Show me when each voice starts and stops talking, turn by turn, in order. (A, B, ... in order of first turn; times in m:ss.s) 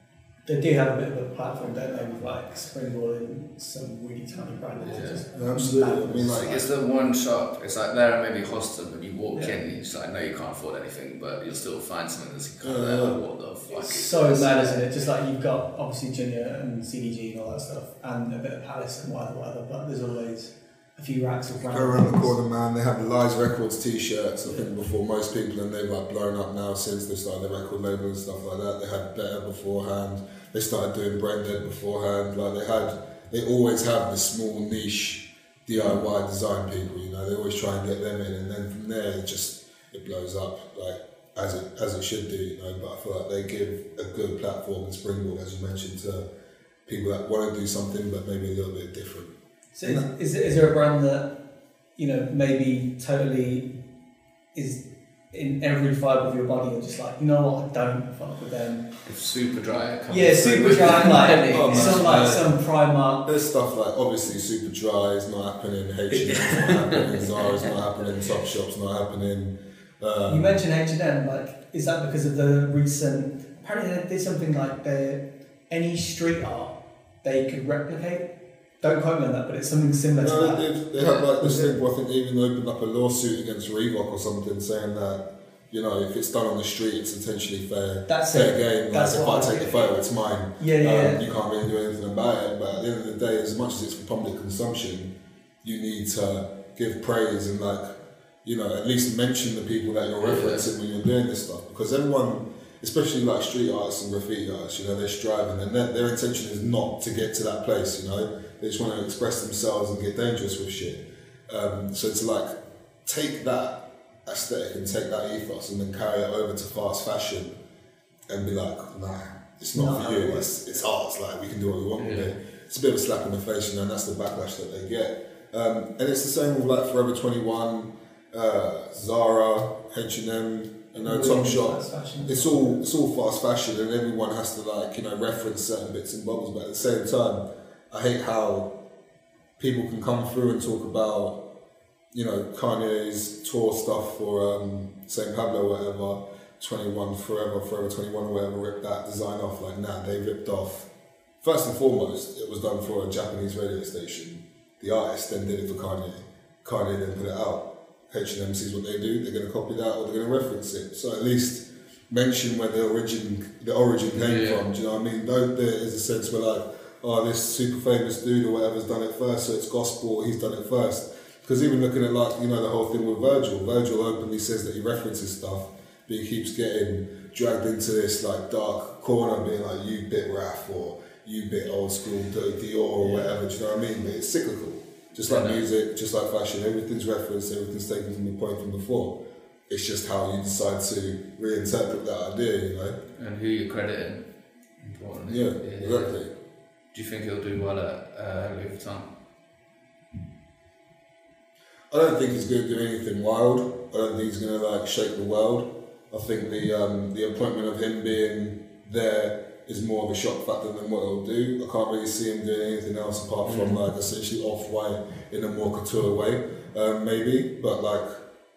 0:00.5-0:06.4 A
0:04.9-0:05.2 B
0:05.3-0:06.7 C
0:06.3-0:14.8 B
0:09.3-0:09.6 A
0:12.6-0:13.2 C
0:13.7-0:22.3 A
0:21.6-0:46.3 C
0:46.9-0:50.1 C
0:49.8-0:51.4 A
0:52.0-0:53.8 A
0:54.5-0:58.9 A
0:59.0-1:02.3 B
1:00.1-1:03.3 A
1:01.5-1:02.6 C
1:03.2-1:10.6 C
1:06.1-1:07.7 B
1:10.3-1:20.7 A
1:20.2-1:37.9 C
1:21.4-1:21.7 A
1:28.1-1:29.9 A
1:30.6-1:31.2 A
1:38.4-1:52.5 C
1:40.2-1:40.7 B
1:53.0-1:57.6 C
1:58.3-2:18.7 C
1:59.8-2:00.5 A
2:02.0-2:02.3 B
2:11.0-2:12.8 A
2:19.6-2:21.4 C
2:22.1-2:30.9 C
2:31.4-3:09.2 C
2:44.2-2:44.6 B
3:05.3-3:05.6 B
3:09.7-3:13.0 C
3:13.2-3:14.3 B
3:14.8-3:16.1 B
3:15.3-3:16.3 C
3:16.9-3:19.1 B
3:21.9-3:38.2 C
3:33.5-3:33.8 B